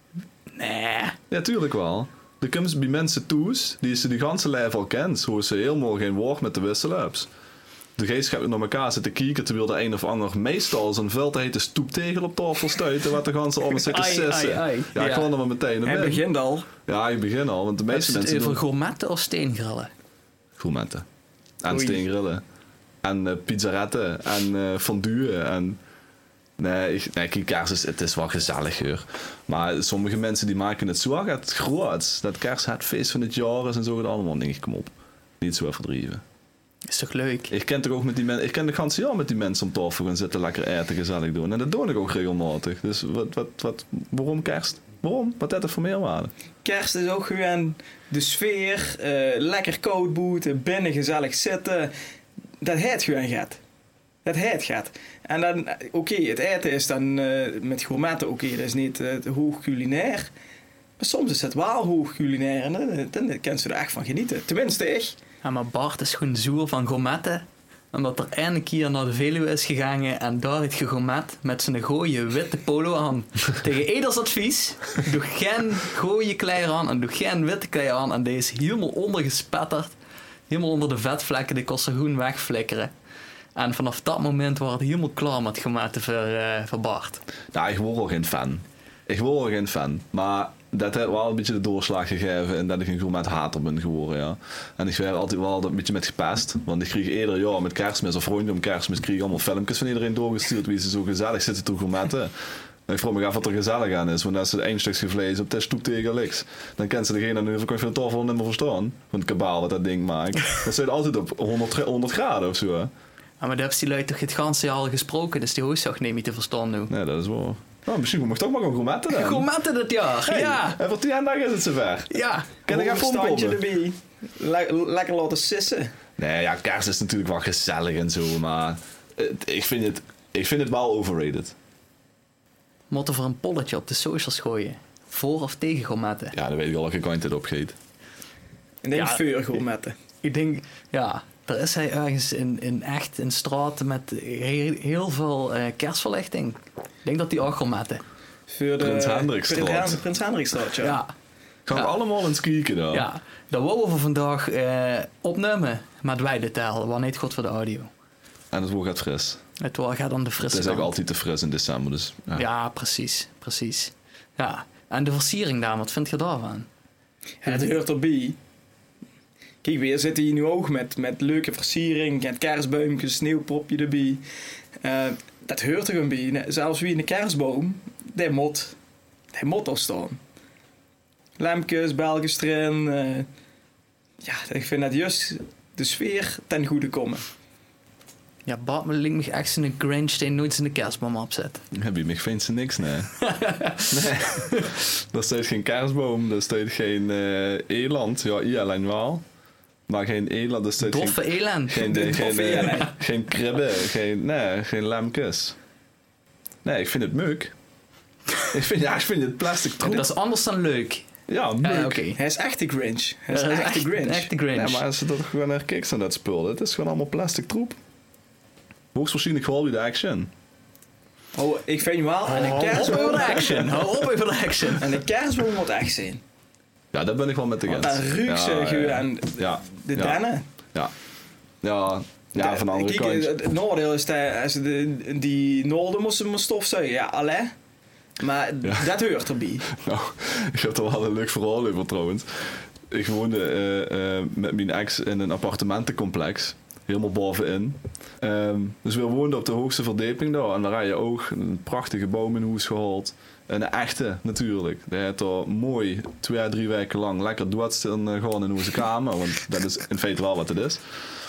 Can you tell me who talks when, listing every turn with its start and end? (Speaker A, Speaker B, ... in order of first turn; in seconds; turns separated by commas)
Speaker A: 0.5-1.2, Speaker B: 1.3-7.3, Speaker B: 8.0-16.2, Speaker A: 13.8-15.3, Speaker C: 15.8-16.7, Speaker B: 16.8-18.6, Speaker A: 17.9-19.9, Speaker B: 20.6-21.1, Speaker B: 21.6-22.4, Speaker C: 21.7-22.0, Speaker B: 23.0-25.8, Speaker B: 26.6-36.2, Speaker A: 36.9-37.5, Speaker B: 37.5-46.3, Speaker C: 46.6-51.9, Speaker C: 52.6-53.6, Speaker C: 54.2-60.3, Speaker C: 61.0-65.2, Speaker A: 65.4-79.9, Speaker A: 80.5-82.9, Speaker A: 83.5-87.2, Speaker B: 87.5-102.3, Speaker B: 102.9-112.9, Speaker A: 113.4-116.9, Speaker B: 116.9-119.5, Speaker A: 119.1-120.8, Speaker B: 120.3-122.1, Speaker A: 122.1-122.5, Speaker B: 122.7-123.6, Speaker C: 122.7-125.9, Speaker B: 126.2-131.6, Speaker A: 132.9-136.3, Speaker B: 136.3-137.8, Speaker C: 138.8-139.9, Speaker A: 138.9-139.2, Speaker A: 140.2-148.0, Speaker C: 148.5-151.0, Speaker B: 148.8-150.0, Speaker A: 150.8-151.1, Speaker B: 151.7-153.1, Speaker A: 152.9-157.9, Speaker B: 158.5-159.4, Speaker A: 159.6-160.9, Speaker B: 160.5-162.4, Speaker A: 162.3-166.7, Speaker C: 167.4-168.4, Speaker A: 167.4-167.8, Speaker C: 169.6-174.2, Speaker C: 174.8-178.8, Speaker C: 179.3-180.2, Speaker C: 181.4-183.3, Speaker C: 184.2-187.2, Speaker A: 188.5-191.6, Speaker B: 191.7-193.1, Speaker A: 193.2-194.7, Speaker B: 193.9-199.2, Speaker B: 199.9-205.6, Speaker A: 200.8-202.6, Speaker C: 201.8-202.9, Speaker B: 206.6-207.5, Speaker B: 208.5-210.1, Speaker A: 209.8-211.1, Speaker B: 211.3-212.0, Speaker A: 211.6-212.2, Speaker C: 212.2-214.3, Speaker A: 213.3-214.8, Speaker B: 214.5-217.8, Speaker B: 218.9-220.3, Speaker C: 221.3-223.8, Speaker A: 222.3-225.0, Speaker C: 224.8-226.2, Speaker B: 226.9-230.2, Speaker C: 227.7-230.4, Speaker B: 231.6-233.3, Speaker C: 232.4-237.5, Speaker C: 238.2-239.7, Speaker B: 239.7-260.8